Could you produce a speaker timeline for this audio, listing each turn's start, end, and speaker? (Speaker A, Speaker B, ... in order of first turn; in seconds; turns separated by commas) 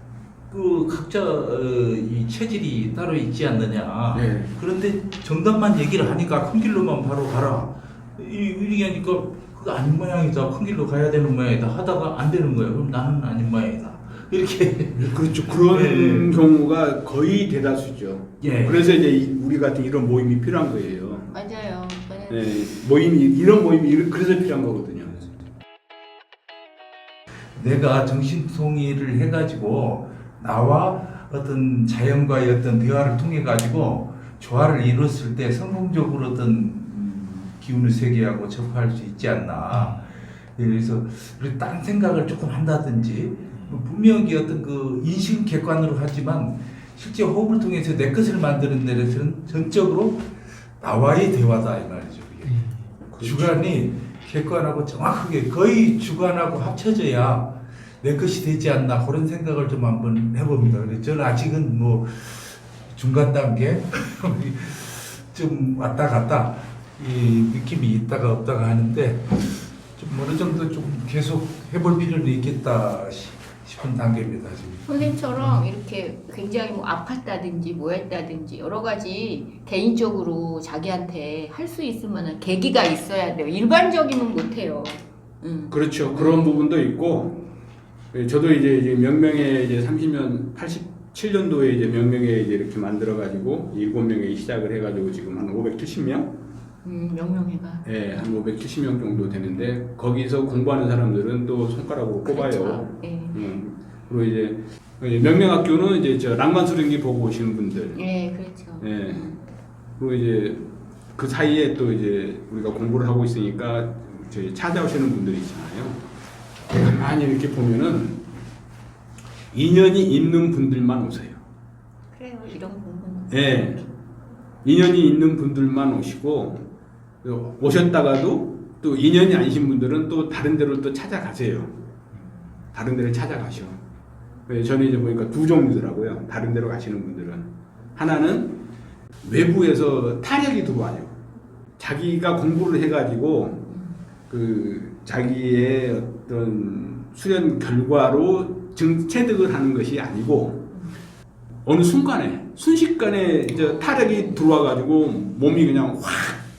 Speaker A: 0.5-16.3, Speaker B: 4.1-4.5, Speaker B: 15.0-21.3, Speaker A: 18.4-18.9, Speaker C: 21.3-22.5, Speaker B: 22.3-25.3, Speaker A: 27.5-75.6, Speaker B: 53.1-53.6, Speaker C: 74.9-86.4, Speaker B: 85.7-87.3, Speaker B: 88.1-96.3, Speaker C: 96.8-98.2, Speaker B: 97.8-108.0, Speaker C: 102.2-103.4, Speaker C: 107.9-109.3, Speaker B: 108.8-109.3, Speaker B: 110.0-116.0, Speaker B: 116.7-118.2, Speaker B: 119.5-121.4, Speaker C: 122.1-123.9, Speaker B: 123.3-123.8, Speaker B: 124.6-126.6, Speaker B: 127.2-131.7, Speaker B: 132.7-133.8, Speaker B: 134.5-138.6, Speaker B: 139.2-141.1, Speaker B: 141.8-143.7, Speaker C: 143.7-144.0, Speaker B: 144.3-150.7, Speaker B: 151.7-156.4, Speaker C: 153.5-154.5